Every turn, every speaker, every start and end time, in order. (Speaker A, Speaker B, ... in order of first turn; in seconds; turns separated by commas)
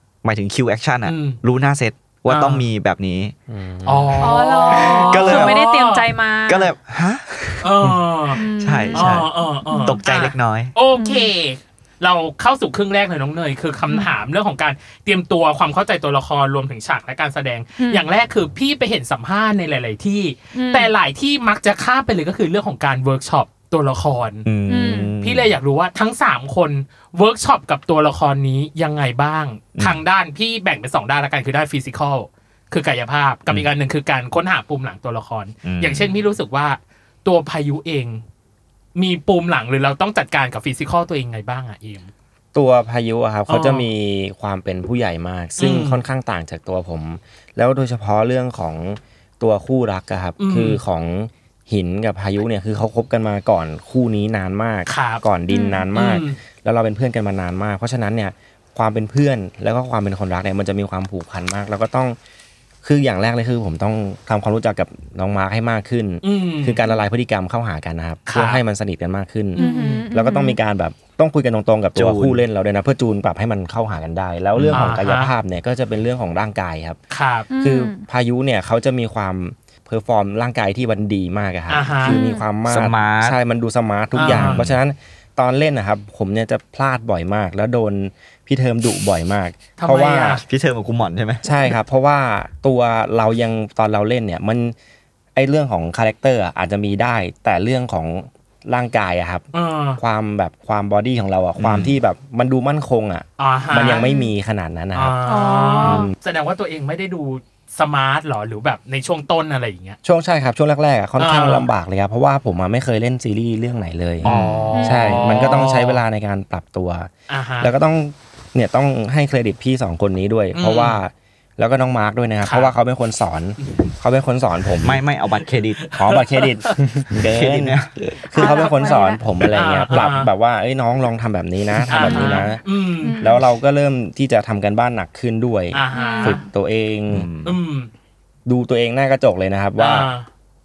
Speaker A: 0.2-3.4, Speaker B: 1.1-1.4, Speaker B: 2.3-2.7, Speaker C: 3.5-4.3, Speaker B: 3.9-6.0, Speaker D: 4.2-6.7, Speaker A: 4.7-5.6, Speaker A: 6.5-7.7, Speaker B: 7.6-24.4, Speaker D: 8.3-10.0, Speaker A: 8.6-10.7, Speaker D: 11.0-11.3, Speaker D: 17.8-18.1, Speaker D: 20.5-20.9, Speaker A: 24.4-25.5, Speaker D: 24.7-25.1, Speaker B: 25.2-38.2, Speaker A: 29.8-30.0, Speaker A: 35.6-36.2, Speaker B: 39.0-42.1, Speaker C: 42.5-62.2, Speaker B: 43.5-43.9, Speaker B: 45.6-46.0, Speaker B: 50.4-50.8, Speaker B: 54.9-55.2, Speaker D: 55.5-55.9, Speaker B: 55.9-56.4, Speaker C: 62.8-77.0, Speaker B: 66.2-66.8, Speaker B: 68.3-68.6, Speaker B: 69.6-70.1, Speaker D: 69.6-70.6, Speaker A: 72.0-72.4, Speaker A: 74.5-74.9, Speaker B: 74.7-75.3, Speaker B: 77.1-77.5, Speaker D: 77.5-78.0, Speaker C: 77.6-90.4, Speaker B: 81.7-82.2, Speaker D: 82.1-82.4, Speaker A: 82.7-83.4, Speaker B: 84.1-84.7, Speaker A: 84.2-84.8, Speaker B: 89.8-90.4, Speaker A: 90.5-91.5, Speaker C: 91.4-94.8, Speaker C: 95.3-99.5, Speaker B: 99.5-100.0, Speaker C: 100.0-105.2, Speaker A: 101.6-102.0, Speaker B: 103.4-104.1, Speaker D: 103.9-104.3, Speaker B: 104.9-110.0, Speaker D: 105.3-106.1, Speaker C: 105.8-106.1, Speaker C: 110.0-114.3, Speaker B: 111.2-111.7, Speaker B: 114.2-116.0, Speaker A: 114.2-114.8, Speaker D: 114.7-115.2, Speaker C: 114.8-125.0, Speaker B: 117.3-117.7, Speaker B: 120.5-121.0, Speaker B: 122.5-122.7, Speaker B: 123.6-123.9, Speaker A: 124.8-126.0, Speaker B: 125.4-126.5, Speaker C: 126.0-132.6, Speaker A: 127.2-128.1, Speaker D: 128.3-129.2, Speaker B: 128.4-130.3, Speaker B: 131.9-133.3, Speaker D: 132.1-132.4, Speaker D: 133.0-133.4, Speaker C: 133.2-137.3, Speaker B: 135.7-136.4, Speaker D: 135.9-136.4, Speaker A: 137.1-137.6, Speaker B: 137.4-137.9, Speaker C: 138.5-140.1, Speaker B: 139.8-140.3